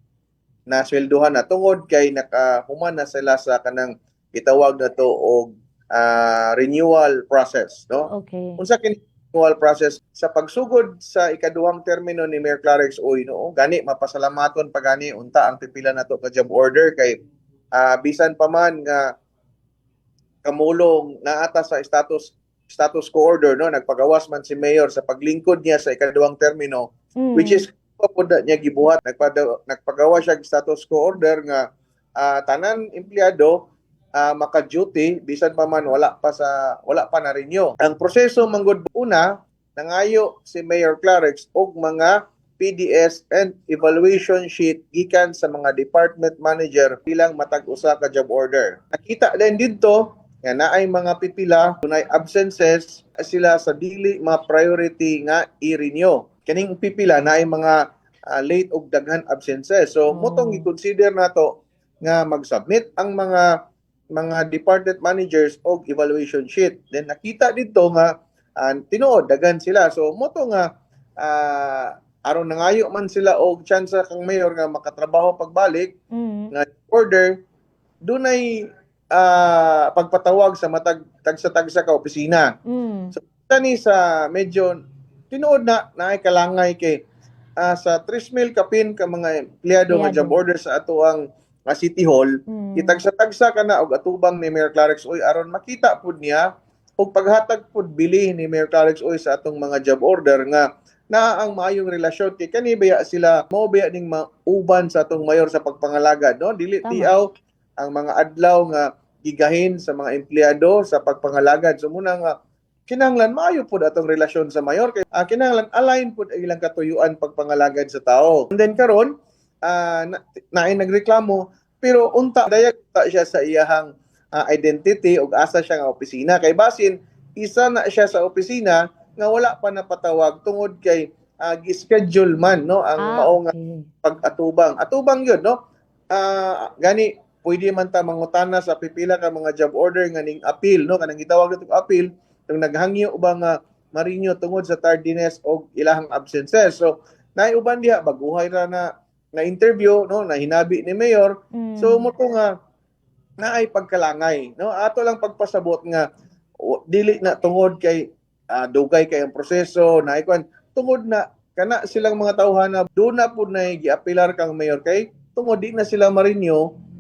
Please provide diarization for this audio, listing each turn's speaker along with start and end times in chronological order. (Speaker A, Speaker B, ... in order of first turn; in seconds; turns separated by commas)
Speaker A: 0.7-17.2, Speaker B: 8.1-8.6, Speaker A: 17.8-19.1, Speaker A: 20.4-26.9, Speaker B: 27.2-27.6, Speaker A: 27.4-31.6, Speaker A: 32.2-33.6, Speaker A: 34.2-57.8, Speaker A: 58.3-61.5, Speaker B: 60.1-60.7, Speaker A: 62.0-63.5, Speaker A: 64.2-70.7, Speaker A: 71.2-75.9, Speaker B: 76.1-76.5, Speaker A: 76.5-77.3, Speaker A: 78.1-78.5, Speaker A: 79.1-82.5, Speaker B: 82.7-83.1, Speaker A: 83.2-84.8, Speaker A: 85.3-87.0, Speaker A: 87.6-96.4, Speaker B: 89.9-90.4, Speaker B: 92.5-93.0, Speaker A: 97.0-107.3, Speaker B: 106.8-107.1, Speaker A: 107.8-112.3, Speaker A: 112.9-119.1, Speaker A: 119.7-133.5, Speaker B: 133.0-133.9, Speaker A: 134.0-135.6, Speaker A: 136.1-152.5, Speaker B: 151.5-152.1, Speaker A: 153.4-156.1, Speaker A: 156.7-166.6